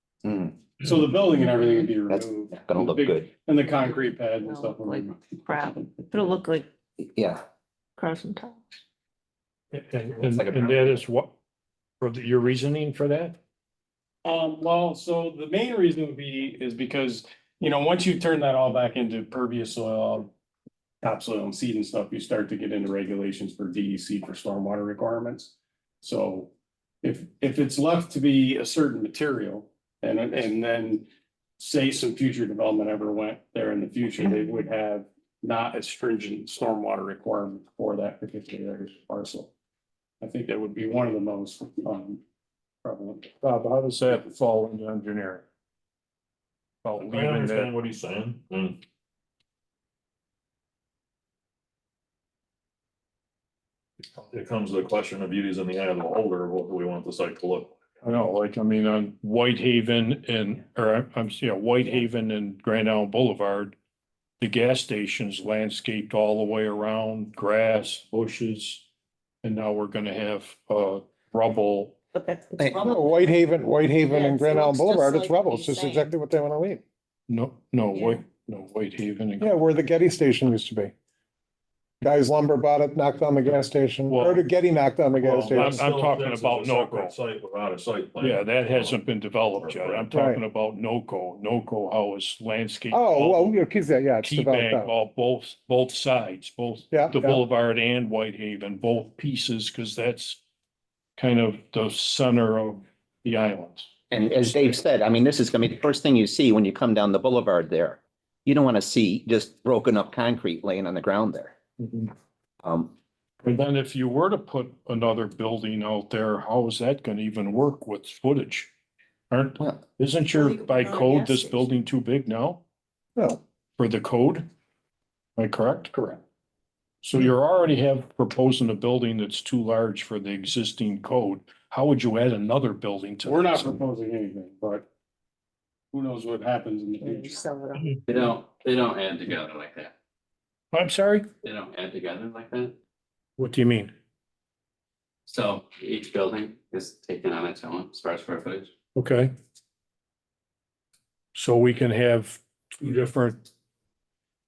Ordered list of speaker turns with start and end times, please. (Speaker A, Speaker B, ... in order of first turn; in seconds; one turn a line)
Speaker A: 0.2-0.6
Speaker B: 0.8-6.1
Speaker A: 2.1-3.3
Speaker C: 4.5-6.7
Speaker A: 7.0-7.4
Speaker C: 8.0-8.6
Speaker D: 9.7-11.3
Speaker A: 10.2-11.0
Speaker D: 12.0-13.4
Speaker B: 14.2-20.3
Speaker B: 21.0-25.5
Speaker B: 26.0-26.5
Speaker B: 27.0-31.0
Speaker B: 31.6-39.5
Speaker B: 40.2-42.2
Speaker B: 42.8-43.3
Speaker D: 43.4-45.4
Speaker D: 46.8-47.7
Speaker E: 47.0-48.8
Speaker E: 54.2-57.8
Speaker D: 58.0-63.8
Speaker D: 64.4-68.9
Speaker D: 69.4-72.0
Speaker C: 72.1-73.3
Speaker A: 72.6-72.9
Speaker F: 72.8-76.8
Speaker C: 74.0-76.1
Speaker D: 77.3-79.5
Speaker F: 79.4-80.9
Speaker F: 82.0-85.8
Speaker D: 84.1-84.5
Speaker D: 85.2-87.2
Speaker E: 85.5-90.1
Speaker D: 88.2-93.6
Speaker F: 90.1-90.4
Speaker F: 92.9-94.9
Speaker D: 94.2-100.4
Speaker F: 96.9-97.4
Speaker D: 101.2-103.9
Speaker A: 104.1-111.5
Speaker D: 111.8-112.1
Speaker A: 112.6-112.9
Speaker D: 113.4-118.7
Speaker D: 119.3-122.6
Speaker C: 120.4-121.6
Speaker D: 123.8-124.5
Speaker D: 125.4-125.9
Speaker B: 125.9-126.2
Speaker D: 127.0-133.8
Speaker B: 133.2-134.8
Speaker B: 135.9-137.4
Speaker C: 137.1-137.8
Speaker G: 138.1-139.9
Speaker D: 140.7-141.3
Speaker G: 141.4-142.8
Speaker D: 143.4-143.9
Speaker G: 145.3-148.7
Speaker D: 148.9-149.3
Speaker D: 151.3-153.5